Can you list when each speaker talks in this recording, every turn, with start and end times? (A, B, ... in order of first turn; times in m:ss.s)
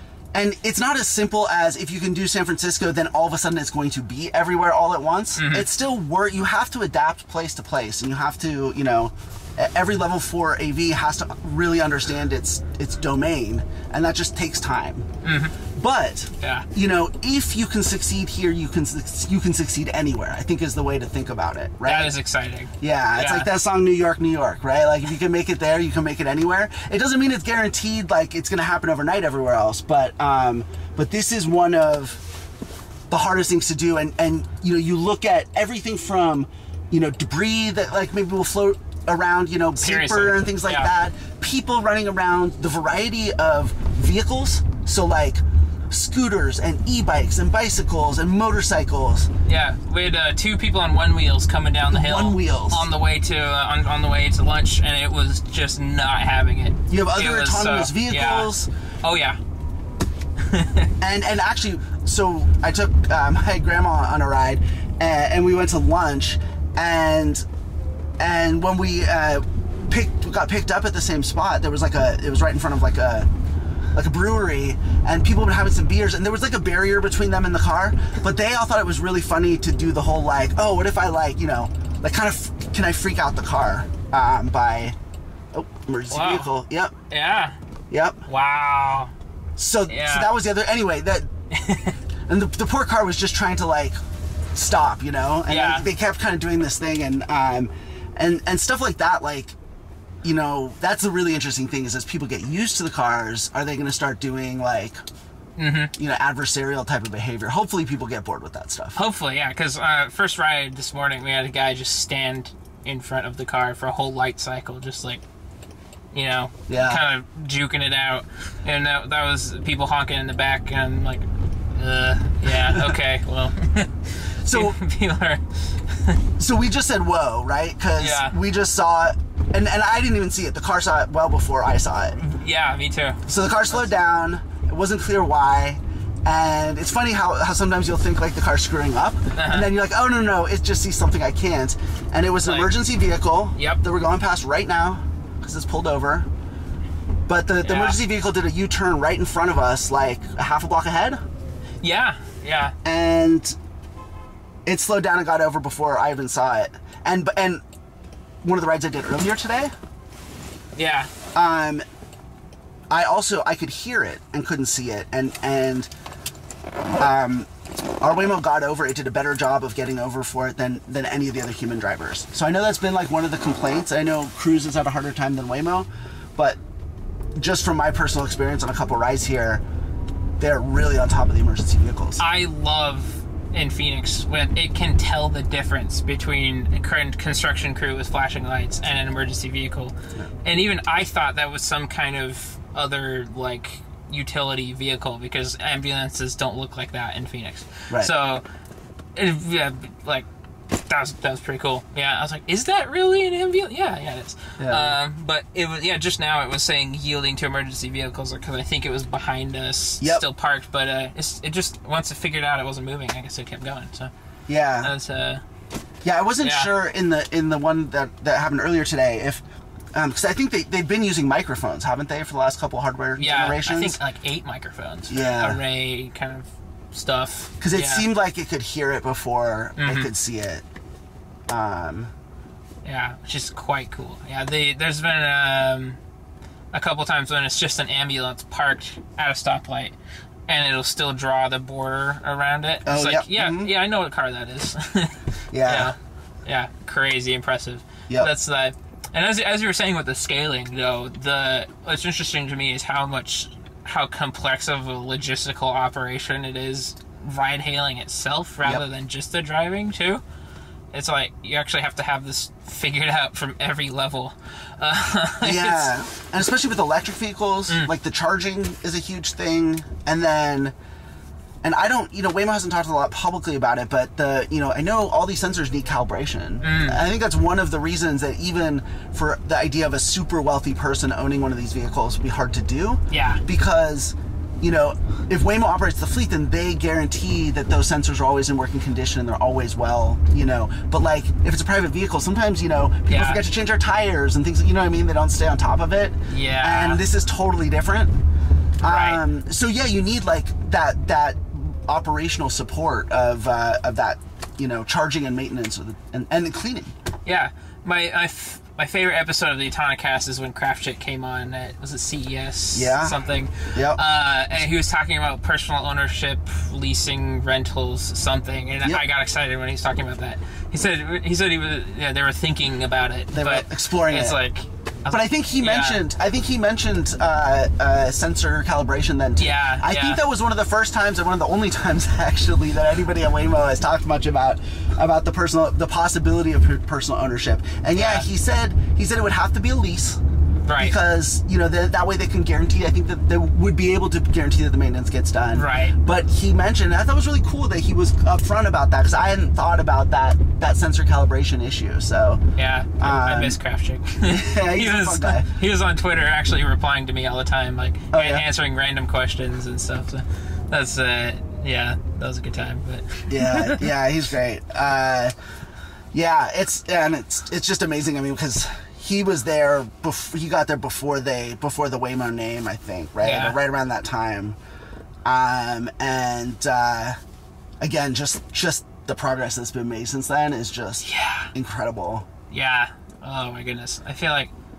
0:00.3-0:15.1 A
0:05.4-0:05.7 B
0:15.2-0:15.6 B
0:15.6-0:22.1 A
0:16.4-0:16.7 B
0:21.8-0:23.5 B
0:22.8-0:32.2 A
0:33.1-0:49.3 A
0:39.8-0:40.9 B
0:49.4-0:58.5 B
0:51.9-0:52.9 A
0:56.9-0:58.7 A
0:59.0-0:59.4 B
1:00.5-1:00.9 B
1:01.0-1:07.4 A
1:08.2-1:13.3 A
1:13.9-1:25.0 A
1:25.5-1:26.9 A
1:26.1-1:26.5 B
1:27.1-1:27.6 B
1:27.9-1:28.2 A
1:28.2-1:29.1 B
1:29.6-1:31.3 A
1:29.9-1:30.3 B
1:31.5-1:32.0 B
1:32.3-1:34.0 A
1:34.5-1:39.6 A
1:35.5-1:35.8 B
1:40.2-1:45.0 A
1:45.6-1:45.9 B
1:46.0-1:49.0 A
1:48.9-1:55.2 B
1:56.1-2:06.2 B
1:56.7-1:57.0 A
2:02.5-2:03.0 A
2:04.4-2:04.8 A
2:06.4-2:12.2 A
2:08.0-2:08.4 B
2:12.2-2:13.9 B
2:13.3-2:26.3 A
2:19.3-2:19.7 B
2:22.4-2:22.7 B
2:23.6-2:23.8 B
2:27.3-2:31.2 A
2:27.6-2:28.0 B
2:31.8-2:32.7 B
2:32.8-2:33.6 A
2:34.6-2:37.6 A
2:38.4-2:39.7 A
2:40.7-2:41.1 B
2:41.3-2:41.8 A
2:42.9-2:45.9 A
2:47.0-2:47.5 A
2:48.0-2:56.6 A
2:57.4-2:59.6 A
3:00.4-3:02.2 A
3:02.2-3:18.4 B
3:19.2-3:20.3 B
3:20.8-3:34.1 B
3:24.6-3:25.0 A
3:34.5-3:34.9 A
3:34.8-3:35.4 B
3:36.0-3:39.4 A
3:36.4-3:36.7 B
3:39.9-3:44.0 A
3:43.2-3:48.1 B
3:45.1-3:45.6 A
3:47.6-3:50.6 A
3:49.8-3:50.1 B
3:51.5-3:52.1 A
3:52.8-3:56.0 B
3:56.7-3:59.9 B
4:00.5-4:20.2 B
4:02.8-4:03.7 A
4:05.5-4:05.9 A
4:20.9-4:26.0 B
4:25.4-4:30.7 A
4:31.6-4:58.2 A
4:36.6-4:37.0 B
4:43.1-4:43.4 B
4:53.1-4:53.4 B
4:56.3-4:57.0 B
4:58.8-5:06.9 A
4:58.8-4:59.2 B
5:07.2-5:26.0 B
5:12.7-5:13.2 A
5:13.7-5:14.0 A
5:23.3-5:24.4 A
5:25.1-5:40.2 A
5:29.4-5:30.2 B
5:37.9-5:38.2 B
5:40.6-5:40.9 B
5:40.8-5:52.4 A
5:45.5-5:46.0 B
5:52.6-6:03.9 B
5:53.0-5:53.6 A
5:54.2-5:55.5 A
5:58.1-5:58.4 A
6:03.3-6:05.3 A
6:06.1-6:14.6 A
6:13.2-6:13.6 B
6:15.2-6:17.2 A
6:17.8-6:22.3 A
6:21.0-6:21.5 B
6:22.5-6:24.5 B